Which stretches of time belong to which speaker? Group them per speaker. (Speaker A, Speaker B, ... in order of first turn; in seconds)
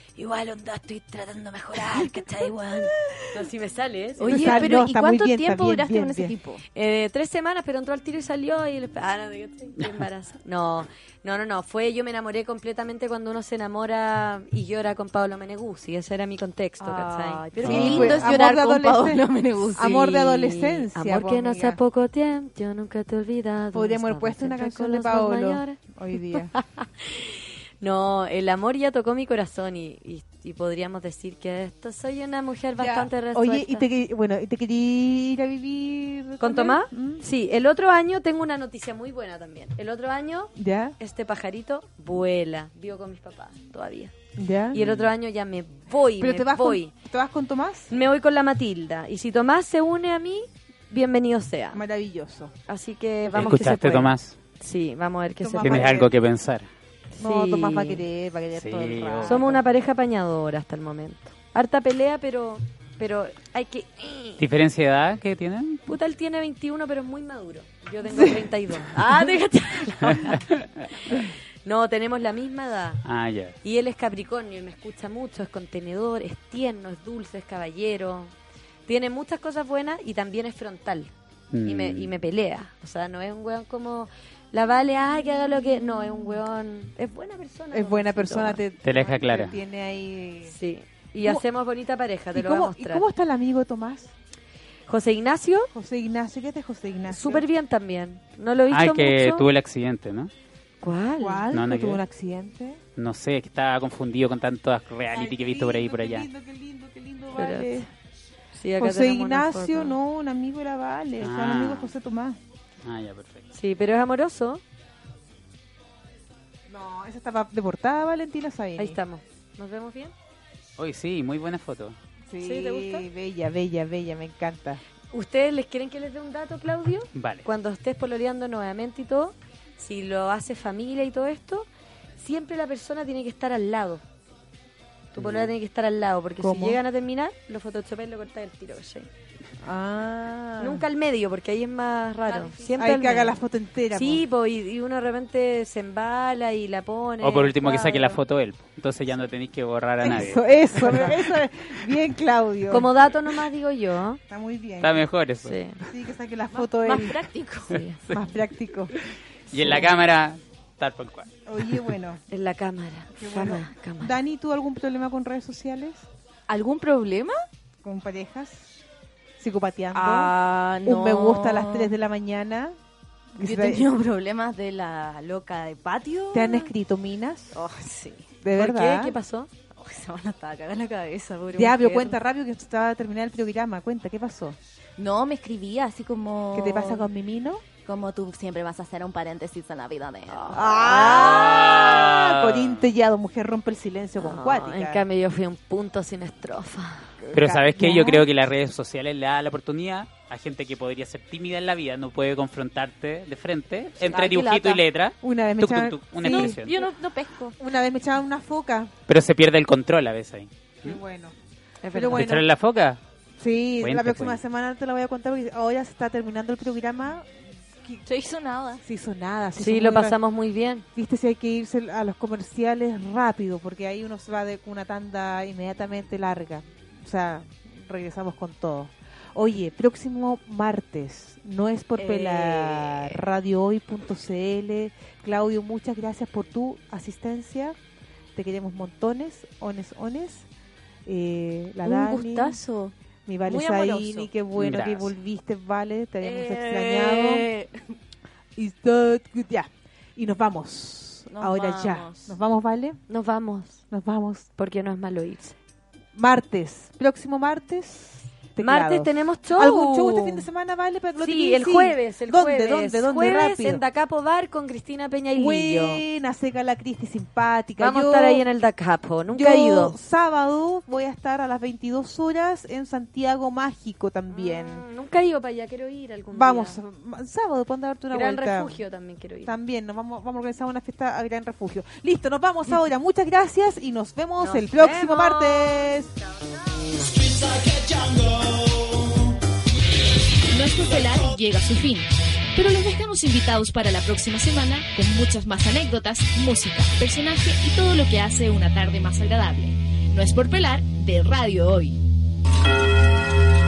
Speaker A: 0.2-4.8, 6.8-18.3, 19.9-25.8, 26.5-33.9, 36.4-44.1, 44.7-46.9, 47.9-51.8, 52.7-56.0, 57.1-58.0, 59.2-64.4, 65.9-70.4, 71.1-73.0, 73.6-78.3, 78.9-81.1, 81.6-88.6, 90.5-93.1, 94.9-95.7, 97.1-99.5, 100.8-101.5, 107.3-107.9, 108.5-110.0, 113.5-114.6, 118.8-120.1, 122.4-123.1, 125.1-131.7, 132.2-134.0, 135.1-139.1, 140.6-143.4, 143.9-148.2, 152.7-154.2, 155.4-155.8, 162.3-164.2, 178.5-179.5, 190.3-191.6, 194.2-197.1, 211.8-212.3, 219.6-220.8, 232.0-233.2, 253.1-253.8, 254.6-255.6, 258.6-260.5, 261.2-266.0, 267.8-270.0, 274.3-276.8, 278.1-279.5, 284.4-287.1
Speaker B: 1.9-2.8, 4.2-6.4, 17.6-21.8, 23.7-26.5, 32.8-37.2, 40.6-41.0, 44.4-44.8, 46.2-48.0, 51.7-52.5, 55.4-56.1, 57.2-59.6, 68.1-68.4, 87.7-90.5, 92.3-94.1, 95.7-97.5, 101.2-102.8, 105.1-107.9, 108.8-112.4, 116.7-119.0, 122.3-124.8, 136.4-136.8, 139.6-140.9, 142.8-144.2, 150.0-152.9, 154.3-155.1, 155.8-157.2, 158.1-158.9, 159.5-159.9, 161.5-162.2, 163.2-166.1, 167.8-168.7, 169.4-170.3, 170.8-172.8, 173.3-173.9, 176.3-177.6, 178.4-179.2, 181.5-184.6, 186.5-187.6, 190.5-195.0, 197.2-198.3, 205.2-206.6, 207.6-208.9, 210.8-211.3, 211.9-212.5, 213.4-218.0, 218.8-220.2, 220.9-237.8, 238.3-240.5, 241.1-242.6, 243.3-247.5, 248.6-253.0, 253.9-254.5, 256.1-263.8, 265.4-268.4, 269.3-274.9, 276.3-278.8, 279.4-286.1
Speaker C: 4.2-6.6, 16.8-20.1, 142.2-142.8, 156.6-158.0, 166.5-167.3, 169.9-171.9, 173.4-176.7, 177.5-178.3, 179.8-182.2, 185.0-187.1, 187.8-190.8, 204.1-204.8, 206.3-207.6, 218.1-218.8, 241.8-242.9, 243.5-244.3, 246.2-247.7, 251.3-252.4
Speaker D: 17.6-18.0, 44.8-45.1, 53.3-54.4, 55.6-56.7, 58.5-59.5, 64.4-65.8, 70.1-70.6, 73.0-73.5, 81.5-82.1, 88.8-89.6, 98.7-100.3, 101.5-102.0, 103.0-106.3, 111.2-111.9, 112.8-113.5, 120.8-122.0, 127.2-127.5, 135.2-135.5, 147.2-151.2, 154.8-155.6, 159.5-161.9, 191.0-192.8, 197.3-206.8, 209.1-211.0, 212.1-213.0, 213.8-214.4, 244.6-245.1
Speaker E: 287.4-288.9, 290.5-302.0